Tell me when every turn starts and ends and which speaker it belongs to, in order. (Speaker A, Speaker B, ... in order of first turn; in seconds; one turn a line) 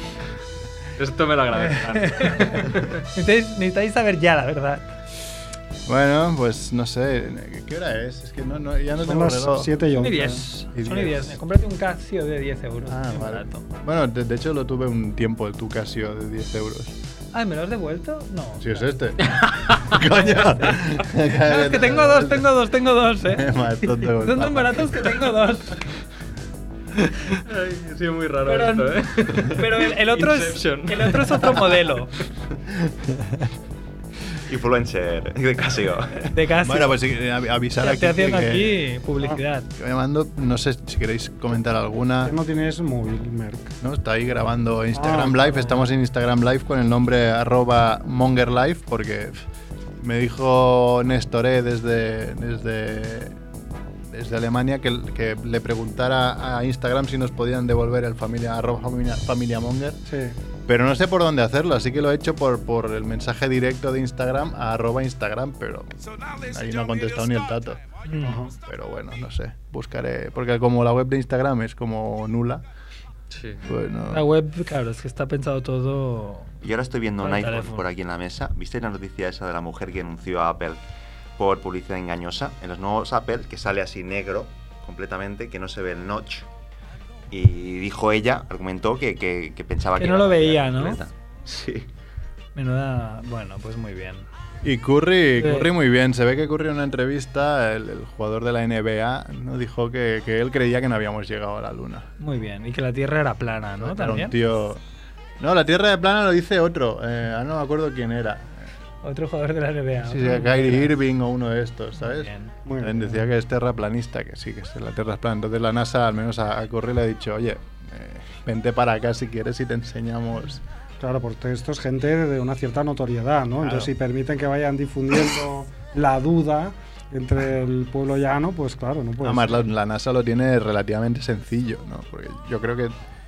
Speaker A: 1.0-2.9
Speaker B: 1.5-4.8
Speaker C: 5.9-9.7
Speaker D: 9.0-10.5
Speaker B: 10.0-13.6
Speaker C: 10.7-11.4
Speaker C: 12.9-16.9
Speaker B: 17.3-18.8
Speaker C: 18.6-22.6
Speaker A: 19.5-19.9
Speaker B: 21.4-25.9
Speaker C: 23.2-25.0
Speaker A: 27.4-31.7
Speaker B: 28.4-32.1
Speaker C: 32.7-33.5
Speaker E: 34.5-36.3
Speaker B: 36.2-37.0
Speaker C: 36.6-38.8
Speaker B: 37.8-39.7
Speaker C: 39.8-42.4
Speaker D: 42.2-43.7
Speaker C: 43.8-49.4
Speaker D: 44.9-45.8
Speaker C: 50.0-53.4
Speaker C: 54.1-60.0
Speaker D: 60.1-60.4
Speaker C: 60.6-67.8
Speaker B: 68.0-68.4
Speaker D: 68.2-68.5
Speaker C: 68.5-72.6
Speaker A: 73.3-73.6
Speaker C: 73.6-74.3
Speaker B: 74.1-76.5
Speaker E: 76.6-80.8
Speaker B: 77.2-77.8
Speaker E: 81.4-86.5
Speaker E: 87.3-91.9
Speaker B: 90.0-91.0
Speaker B: 92.5-94.2
Speaker C: 94.6-102.1
Speaker B: 95.4-95.7
Speaker B: 102.2-104.3
Speaker C: 103.8-104.8
Speaker C: 105.4-108.6
Speaker B: 109.0-110.9
Speaker C: 110.0-120.6
Speaker B: 112.0-112.5
Speaker D: 112.7-113.2
Speaker D: 121.0-129.6
Speaker C: 123.6-123.9
Speaker C: 129.2-132.9